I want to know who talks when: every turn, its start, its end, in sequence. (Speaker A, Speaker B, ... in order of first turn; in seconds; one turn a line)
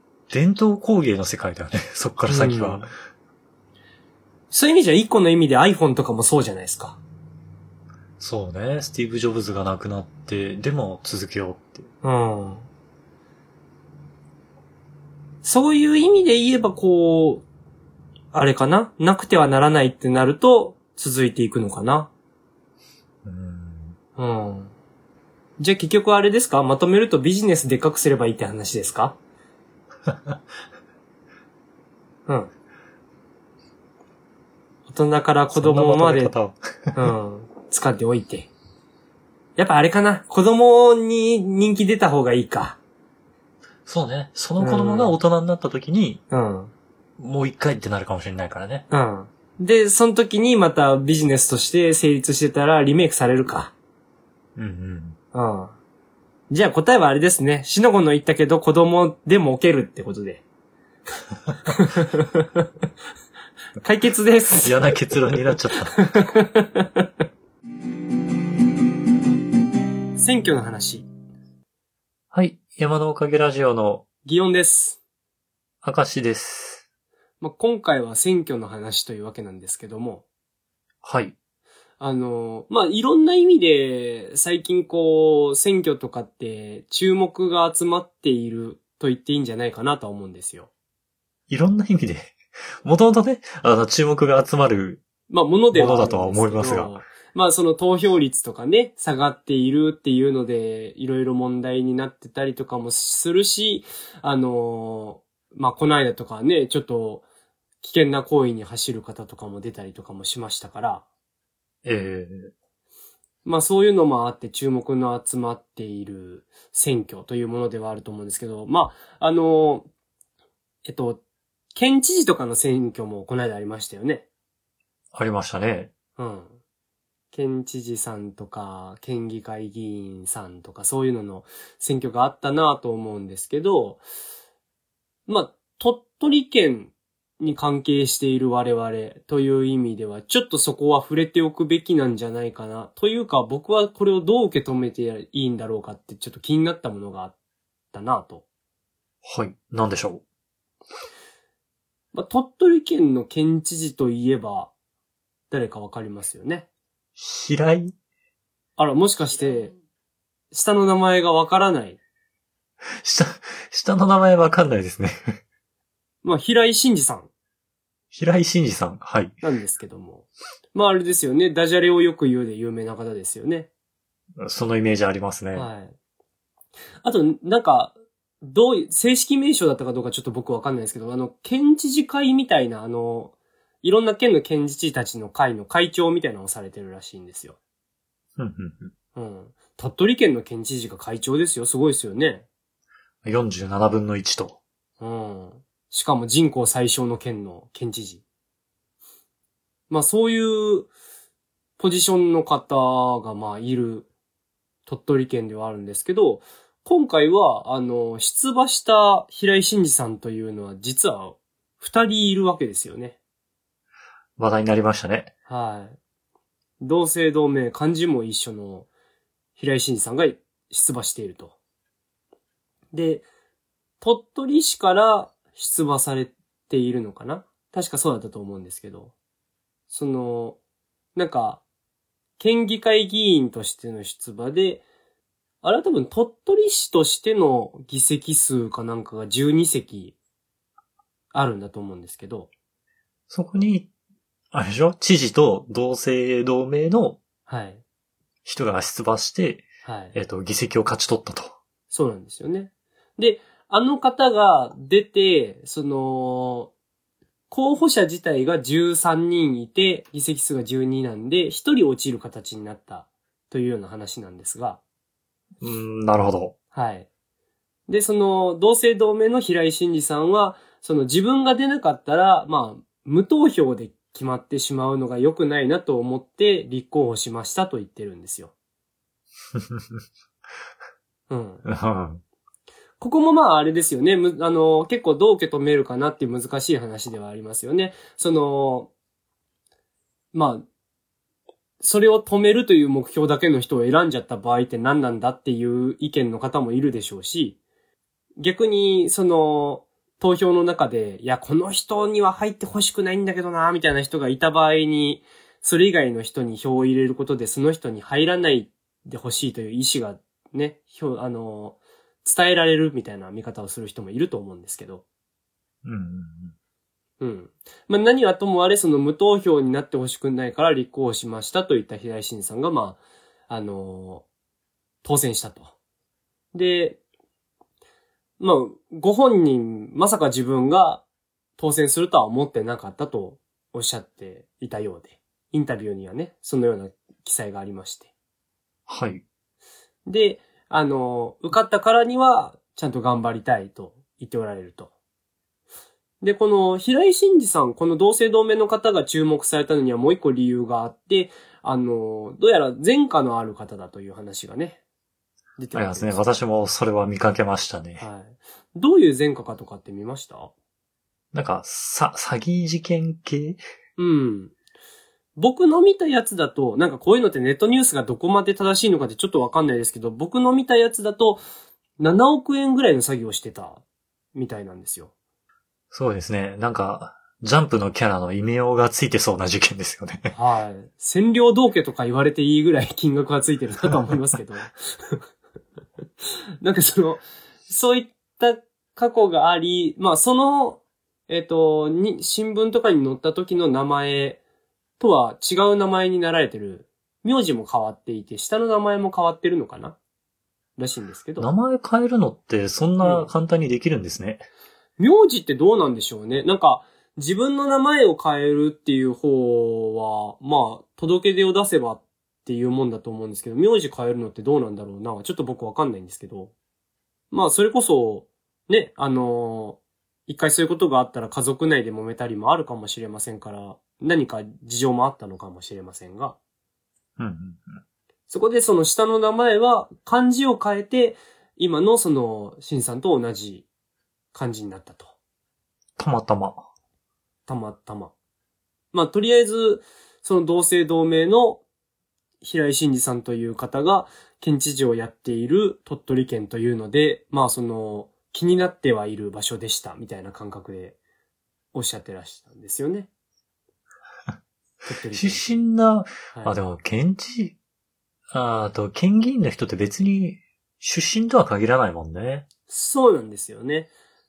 Speaker A: 0.3-2.9
Speaker B: 2.3-2.9
Speaker B: 4.5-7.0
Speaker A: 8.2-11.9
Speaker B: 12.0-12.7
Speaker B: 15.4-17.4
Speaker B: 18.3-22.1
Speaker A: 23.2-24.0
Speaker B: 24.2-24.7
Speaker B: 25.6-29.2
Speaker A: 30.1-30.4
Speaker B: 34.9-36.3
Speaker A: 35.5-37.0
Speaker B: 36.9-38.5
Speaker B: 39.6-42.8
Speaker A: 43.9-46.2
Speaker B: 44.6-45.2
Speaker B: 46.3-46.7
Speaker A: 47.2-48.9
Speaker B: 48.9-53.7
Speaker A: 54.6-55.2
Speaker B: 55.3-55.8
Speaker B: 56.5-60.4
Speaker B: 61.7-62.6
Speaker B: 63.8-65.0
Speaker A: 64.6-66.1
Speaker B: 65.9-67.1
Speaker B: 70.2-71.1
Speaker A: 72.3-74.0
Speaker B: 74.2-75.0
Speaker A: 75.8-76.8
Speaker B: 77.4-80.2
Speaker A: 81.0-81.3
Speaker B: 82.0-90.7
Speaker A: 91.5-95.0
Speaker B: 95.3-107.2
Speaker A: 95.7-97.0
Speaker B: 107.8-111.0
Speaker A: 111.8-112.5
Speaker B: 113.5-119.9
Speaker B: 120.8-121.2
Speaker B: 121.7-124.2
Speaker A: 125.1-125.9
Speaker B: 126.2-126.6
Speaker B: 127.3-134.0
Speaker B: 135.3-147.3
Speaker B: 147.9-148.4
Speaker A: 149.2-150.2
Speaker B: 152.1-154.7
Speaker B: 155.5-156.7
Speaker A: 157.2-157.9
Speaker B: 158.8-159.7
Speaker B: 160.5-162.0
Speaker A: 163.0-165.4
Speaker B: 166.2-167.3
Speaker A: 168.1-169.3
Speaker B: 169.4-173.7
Speaker A: 174.4-175.7
Speaker B: 175.6-175.9
Speaker B: 177.0-187.6
Speaker A: 188.4-188.9
Speaker B: 189.2-192.5
Speaker A: 193.2-194.6
Speaker B: 195.0-198.2
Speaker B: 199.9-200.9
Speaker B: 201.8-204.1
Speaker B: 204.9-213.2
Speaker A: 214.4-215.3
Speaker B: 215.5-216.0
Speaker B: 216.8-218.9
Speaker B: 219.6-221.6
Speaker B: 222.9-223.3
Speaker B: 224.0-229.1
Speaker B: 229.9-230.6
Speaker B: 231.2-231.6
Speaker B: 232.4-234.8
Speaker B: 235.6-240.2
Speaker B: 241.3-242.5
Speaker A: 243.3-243.9
Speaker A: 244.5-247.2
Speaker B: 247.5-247.8
Speaker A: 248.4-251.6
Speaker B: 249.8-250.2
Speaker B: 251.9-256.7
Speaker B: 257.5-264.8
Speaker A: 265.6-266.6
Speaker B: 266.7-267.1
Speaker B: 267.9-278.5
Speaker A: 279.6-280.0
Speaker B: 281.3-281.6
Speaker A: 281.7-282.2
Speaker B: 283.0-288.9
Speaker B: 290.3-290.6
Speaker B: 291.8-297.6
Speaker B: 298.4-315.0
Speaker A: 315.9-316.6
Speaker B: 317.2-324.3
Speaker B: 325.0-325.7
Speaker B: 326.5-327.0
Speaker B: 328.4-331.0
Speaker B: 331.6-338.1
Speaker A: 338.9-339.2
Speaker B: 340.1-344.9
Speaker B: 346.2-354.8
Speaker B: 355.6-356.2
Speaker A: 355.7-358.1
Speaker B: 358.0-360.5
Speaker A: 361.3-363.6
Speaker B: 364.0-364.5
Speaker B: 365.4-371.4
Speaker B: 372.0-373.8
Speaker B: 374.4-375.1
Speaker A: 375.9-380.3
Speaker B: 380.3-385.2
Speaker B: 386.6-394.4
Speaker B: 395.0-400.0
Speaker B: 400.8-401.5
Speaker A: 401.4-404.5
Speaker B: 403.0-403.3
Speaker B: 405.0-416.5
Speaker B: 417.3-426.4
Speaker A: 427.2-427.8
Speaker B: 428.3-433.7
Speaker B: 434.3-435.1
Speaker A: 436.0-436.7
Speaker B: 437.5-438.1
Speaker B: 438.9-441.6
Speaker B: 442.4-451.0
Speaker B: 451.7-453.1
Speaker B: 454.9-455.6
Speaker A: 455.1-457.6
Speaker A: 458.3-462.5
Speaker B: 462.7-463.9